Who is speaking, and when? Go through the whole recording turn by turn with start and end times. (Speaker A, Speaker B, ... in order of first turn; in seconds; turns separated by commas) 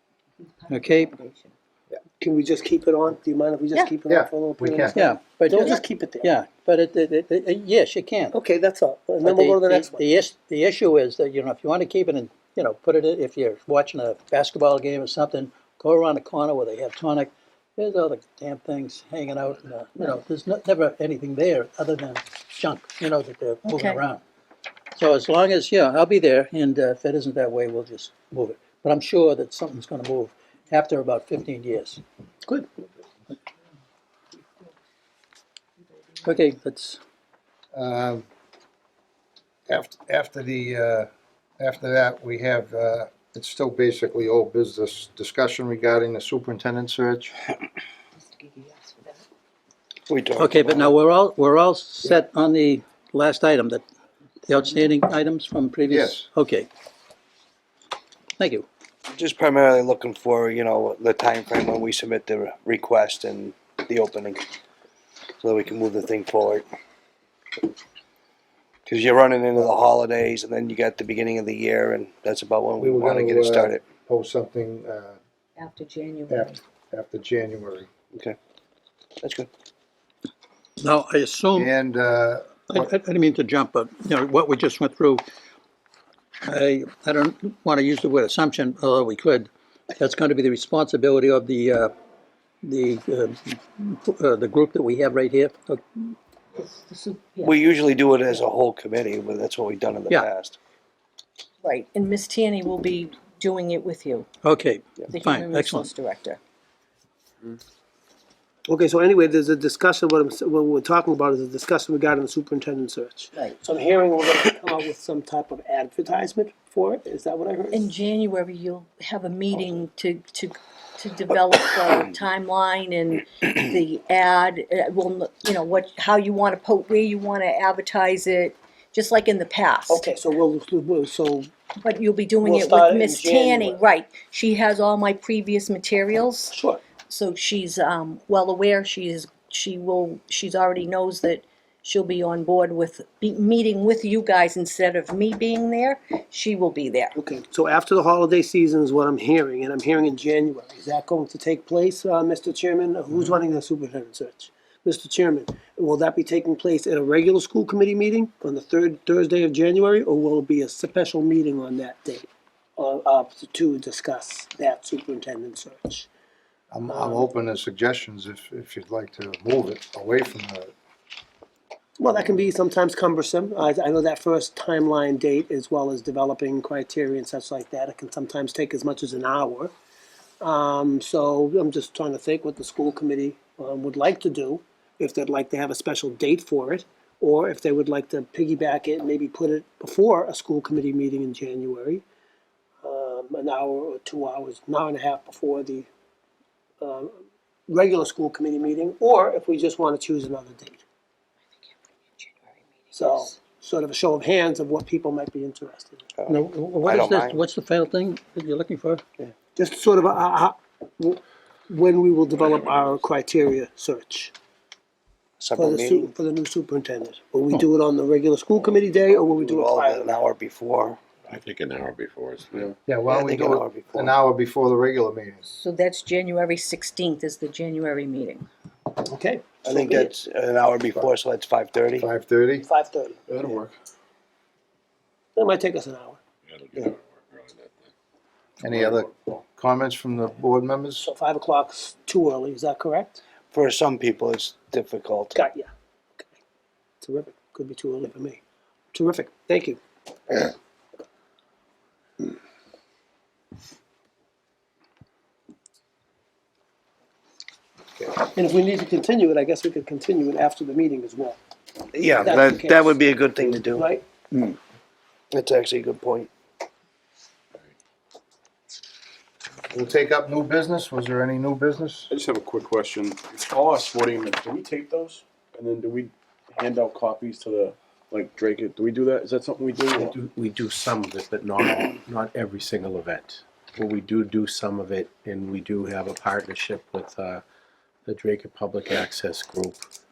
Speaker A: 0.4-1.5, Speaker B: 0.7-1.1, Speaker C: 2.2-6.3, Speaker D: 4.1-5.0, Speaker B: 5.0-8.3, Speaker C: 8.3-10.0, Speaker B: 9.2-24.2, Speaker A: 23.7-24.0, Speaker B: 25.0-32.0, Speaker B: 36.2-37.0, Speaker D: 37.7-38.3, Speaker D: 39.7-41.1, Speaker D: 41.6-47.4, Speaker A: 48.3-49.2, Speaker E: 50.1-51.0, Speaker B: 50.4-53.8, Speaker B: 54.5-56.7, Speaker D: 55.9-56.3, Speaker B: 58.4-58.7, Speaker E: 59.1-64.5, Speaker E: 65.4-66.7, Speaker E: 68.9-73.8, Speaker D: 72.8-75.2, Speaker A: 75.6-76.6, Speaker D: 76.3-77.9, Speaker E: 79.2-79.5, Speaker B: 80.8-81.7, Speaker D: 81.5-82.9, Speaker B: 82.7-85.2, Speaker B: 86.5-91.9, Speaker B: 92.7-95.8, Speaker A: 96.6-97.6, Speaker E: 97.4-100.6, Speaker A: 101.6-104.3, Speaker B: 104.4-105.9, Speaker A: 105.1-106.4, Speaker C: 108.7-118.0, Speaker A: 117.7-130.1, Speaker C: 129.9-131.5, Speaker A: 131.8-147.2, Speaker C: 132.4-133.8, Speaker C: 136.5-136.8, Speaker C: 147.2-166.1, Speaker D: 166.7-170.7, Speaker C: 166.9-167.3, Speaker C: 172.0-179.7, Speaker C: 180.4-192.0, Speaker C: 192.8-195.9, Speaker C: 196.8-200.8, Speaker A: 202.2-203.1, Speaker C: 202.9-206.0, Speaker E: 206.2-207.4, Speaker B: 206.3-209.0, Speaker C: 209.6-214.3, Speaker F: 212.6-212.9, Speaker E: 215.4-216.1, Speaker C: 215.6-220.2, Speaker E: 219.1-221.0, Speaker F: 221.3-222.7, Speaker A: 221.7-222.5, Speaker D: 222.9-225.5, Speaker E: 223.1-224.1, Speaker A: 225.4-228.5, Speaker C: 229.1-230.1, Speaker E: 229.6-232.1, Speaker D: 232.0-232.7, Speaker C: 232.6-233.5, Speaker F: 233.3-233.6, Speaker C: 235.4-236.2, Speaker F: 236.5-237.8, Speaker D: 238.6-241.1, Speaker F: 238.7-239.1, Speaker C: 241.0-243.2, Speaker E: 243.5-245.3, Speaker C: 245.3-245.7, Speaker C: 247.0-248.4, Speaker C: 248.9-249.8, Speaker C: 258.2-261.4, Speaker E: 261.9-263.9, Speaker C: 262.1-264.0, Speaker E: 265.3-266.3, Speaker D: 269.7-272.1, Speaker F: 272.1-280.1, Speaker G: 279.9-287.4, Speaker G: 288.1-289.8